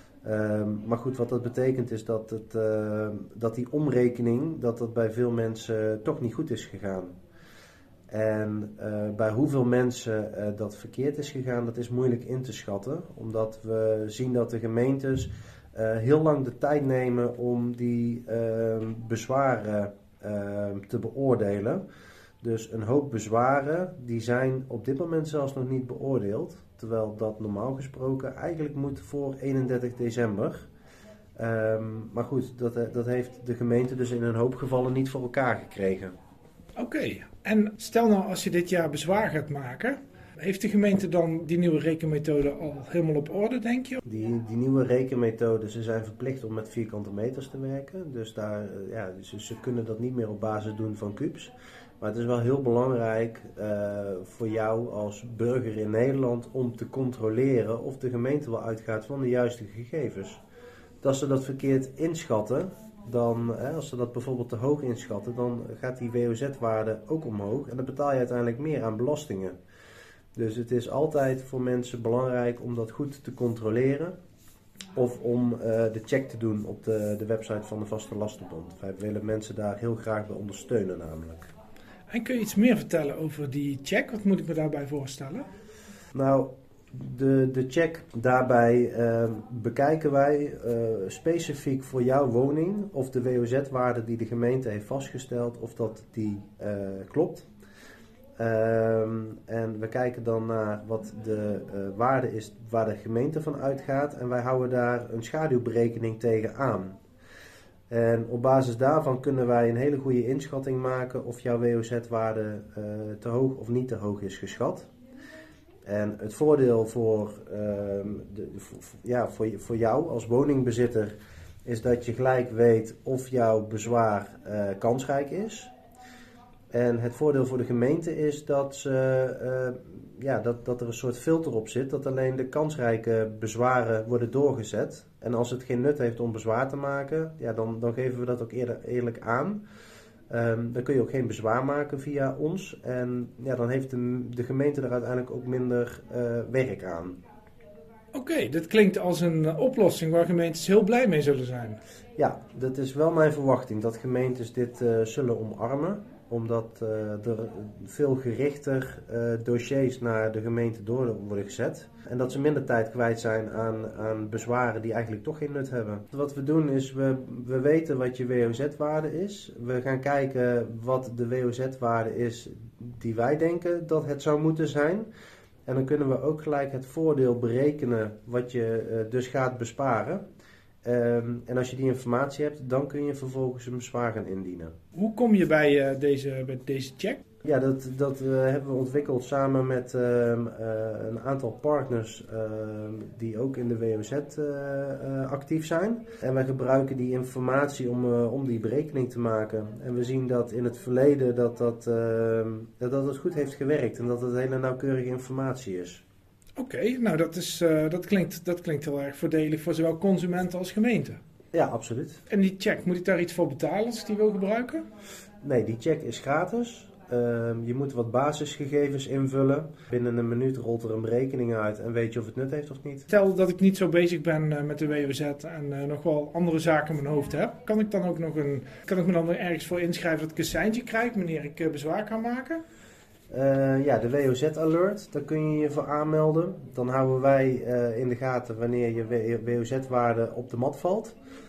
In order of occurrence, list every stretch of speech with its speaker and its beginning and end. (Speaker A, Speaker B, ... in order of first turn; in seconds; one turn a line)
Speaker A: 0.2-7.1
Speaker A: 8.1-21.8
Speaker A: 22.4-30.6
Speaker A: 31.4-36.1
Speaker B: 36.8-44.0
Speaker A: 44.0-60.4
Speaker A: 61.0-69.5
Speaker A: 70.3-74.1
Speaker A: 74.9-81.5
Speaker B: 82.1-85.4
Speaker A: 86.1-97.4
Speaker A: 98.4-107.0
Speaker A: 107.9-114.9
Speaker A: 115.8-121.1
Speaker A: 121.7-125.7
Speaker A: 126.7-139.6
Speaker A: 140.3-147.2
Speaker B: 148.1-151.8
Speaker A: 152.2-175.1
Speaker A: 175.7-180.2
Speaker A: 180.8-184.7
Speaker B: 184.9-187.2
Speaker A: 187.4-206.0
Speaker B: 206.6-211.2
Speaker A: 211.5-212.2
Speaker B: 212.3-214.8
Speaker A: 215.4-223.1
Speaker B: 223.1-232.6
Speaker A: 233.3-241.1